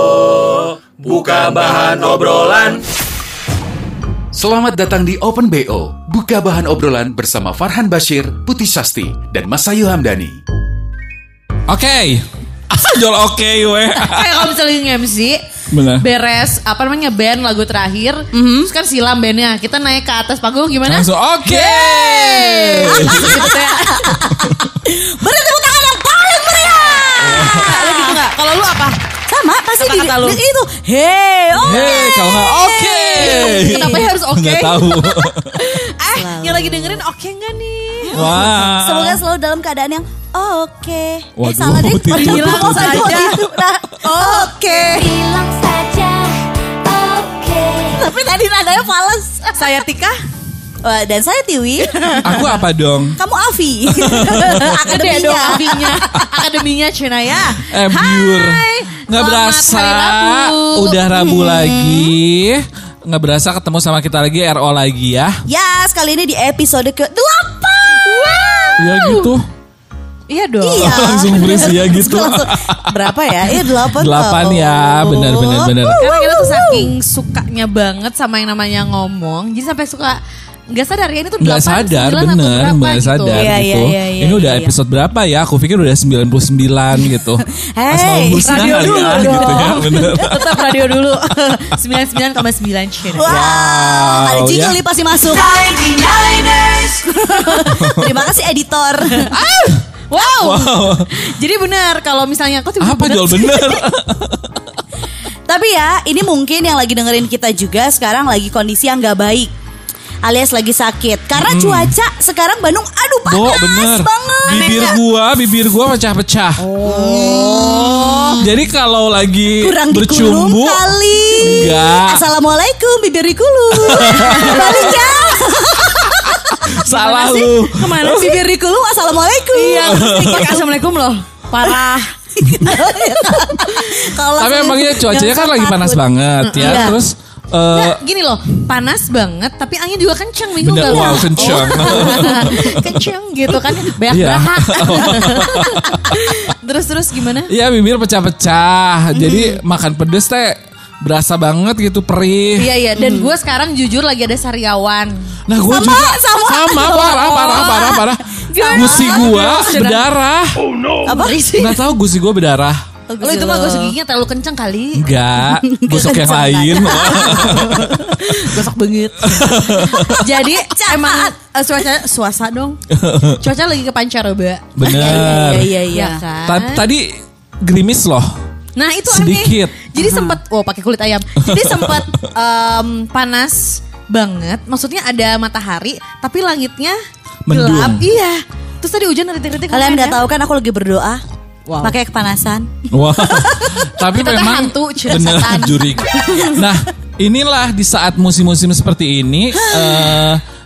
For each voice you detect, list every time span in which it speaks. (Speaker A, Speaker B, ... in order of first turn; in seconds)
Speaker A: 0.4-2.8, 4.3-10.4
Speaker B: 11.7-14.4, 15.7-16.0, 20.9-23.5, 24.3-24.6, 27.2-27.7, 31.6-35.7, 38.1-39.2, 41.4-43.4, 52.2-53.2, 53.9-54.8, 57.7-65.4, 68.8-69.5, 70.8-76.0, 81.4-90.7, 93.3-94.8, 97.8-98.2, 100.2-101.1, 102.8-104.6, 111.3-111.9, 113.3-116.7, 118.4-122.2, 123.7-125.0, 125.8-128.3, 129.8-130.6, 134.4-138.0, 140.6-143.0, 144.0-146.4, 147.5-152.7, 155.5-160.6, 161.6-162.8, 164.9-168.6, 169.2-170.2, 172.9-173.4, 174.8-175.8, 176.5-178.3, 179.1-179.8, 181.4-182.2, 187.5-188.0, 192.9-200.4
Speaker C: 14.0-15.4, 16.0-24.5, 27.0-29.0, 29.8-30.4, 31.7-38.5, 42.1-43.5, 44.0-45.0, 49.5-50.2, 52.0-52.5, 54.3-61.0, 68.0-69.3, 70.3-71.7, 75.8-80.2, 80.7-83.5, 88.5-93.3, 95.8-97.9, 99.1-103.8, 116.6-118.5, 124.3-125.5, 126.8-128.5, 129.5-134.2, 136.4-137.0, 137.7-147.5, 152.6-155.2, 156.9-160.1, 161.1-161.8, 163.2-165.0, 166.0-172.8, 173.4-176.8, 178.8-187.0, 187.5-190.2, 191.7-192.0, 194.1-196.6
Speaker D: 18.3-18.7, 22.4-28.2, 29.3-34.1, 36.1-37.0, 38.1-49.7, 50.8-52.5, 53.2-56.3, 61.1-62.1, 65.5-68.8, 70.6-76.9, 83.3-84.7, 87.0-90.3, 93.1-99.4, 105.5-109.5, 110.2-115.0, 116.8-118.5, 119.6-126.6, 128.1-130.3, 132.4-136.0, 136.6-137.0, 140.8-142.6, 149.1-149.6, 153.0-153.3, 155.7-158.1, 158.6-159.7, 161.1-161.4, 163.1-164.0, 165.5-167.9, 170.5-171.3, 174.8-176.2, 180.0-180.4, 189.7-191.2, 191.8-192.7, 193.3-193.8, 199.6-200.3